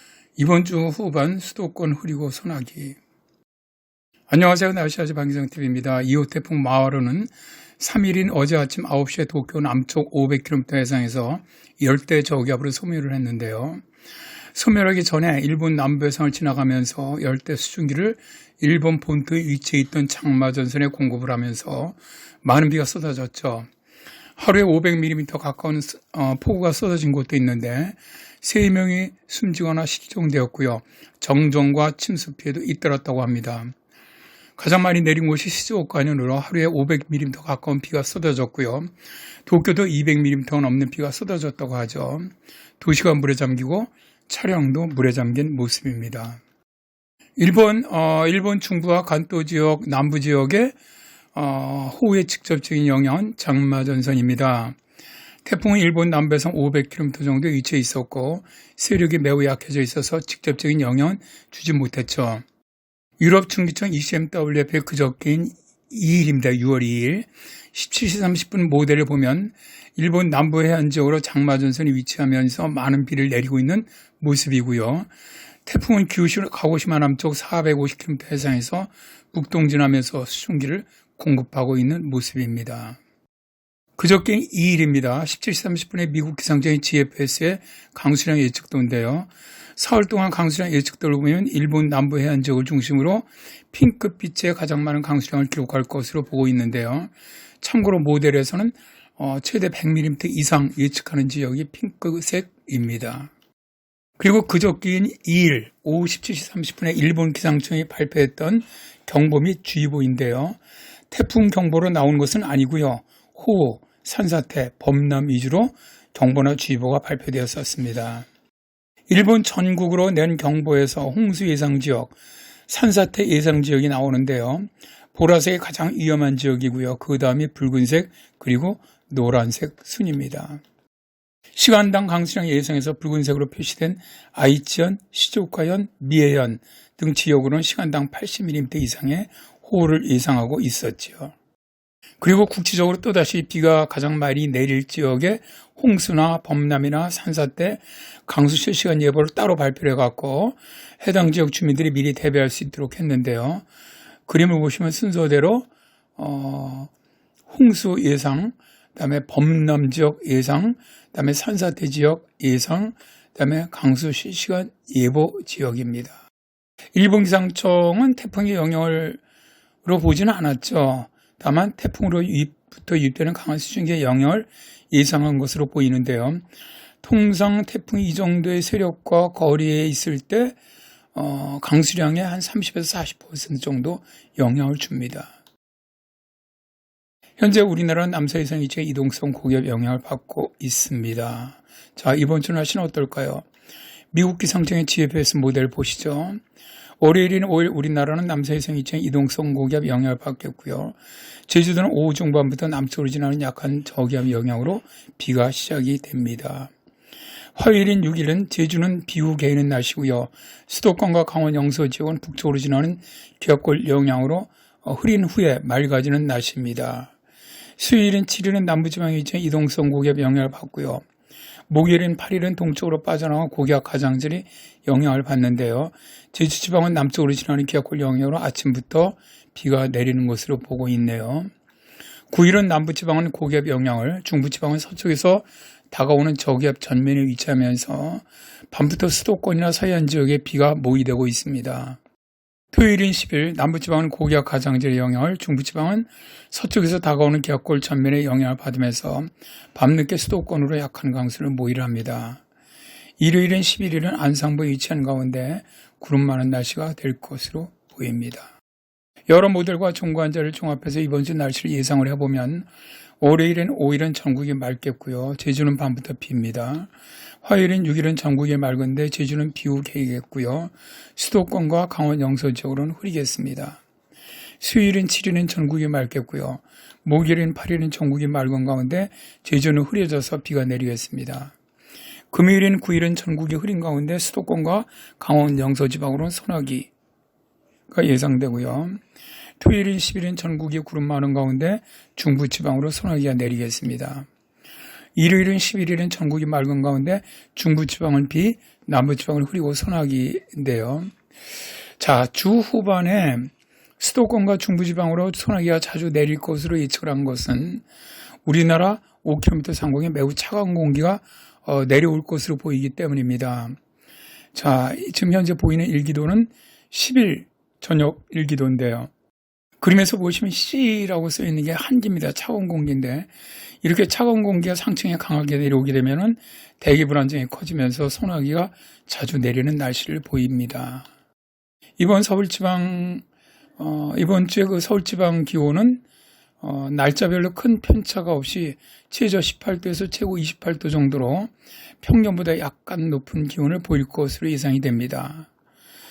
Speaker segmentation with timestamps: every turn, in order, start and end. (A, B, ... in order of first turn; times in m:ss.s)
0:00.4-0:03.0 A
0:04.3-0:13.8 A
0:14.5-0:23.7 A
0:24.4-0:33.7 A
0:34.6-0:38.9 A
0:39.4-0:46.4 A
0:47.4-0:50.7 A
0:51.3-0:54.8 A
0:55.4-1:02.4 A
1:03.2-1:15.1 A
1:15.6-1:23.0 A
1:24.0-1:43.3 A
1:44.2-1:50.6 A
1:51.1-1:58.3 A
1:59.1-2:02.1 A
2:02.7-2:10.6 A
2:11.6-2:21.3 A
2:22.2-2:33.6 A
2:34.3-2:36.9 A
2:37.5-2:46.2 A
2:46.9-2:49.2 A
2:49.8-2:56.4 A
2:57.0-3:00.6 A
3:01.1-3:05.3 A
3:07.4-3:13.4 A
3:14.1-3:16.4 A
3:17.0-3:21.0 A
3:21.5-3:26.7 A
3:27.6-3:37.1 A
3:37.8-3:41.0 A
3:41.7-3:51.5 A
3:52.3-4:02.0 A
4:02.7-4:12.4 A
4:13.2-4:18.5 A
4:19.3-4:22.7 A
4:23.2-4:26.9 A
4:27.4-4:33.8 A
4:34.6-4:41.5 A
4:42.3-4:46.9 A
4:47.9-4:49.0 A
4:49.6-4:54.3 A
4:55.2-5:01.1 A
5:02.0-5:07.8 A
5:08.4-5:13.8 A
5:14.5-5:19.1 A
5:19.8-5:23.3 A
5:23.8-5:31.1 A
5:32.0-5:33.2 A
5:33.8-5:36.0 A
5:36.6-5:41.5 A
5:42.0-5:45.5 A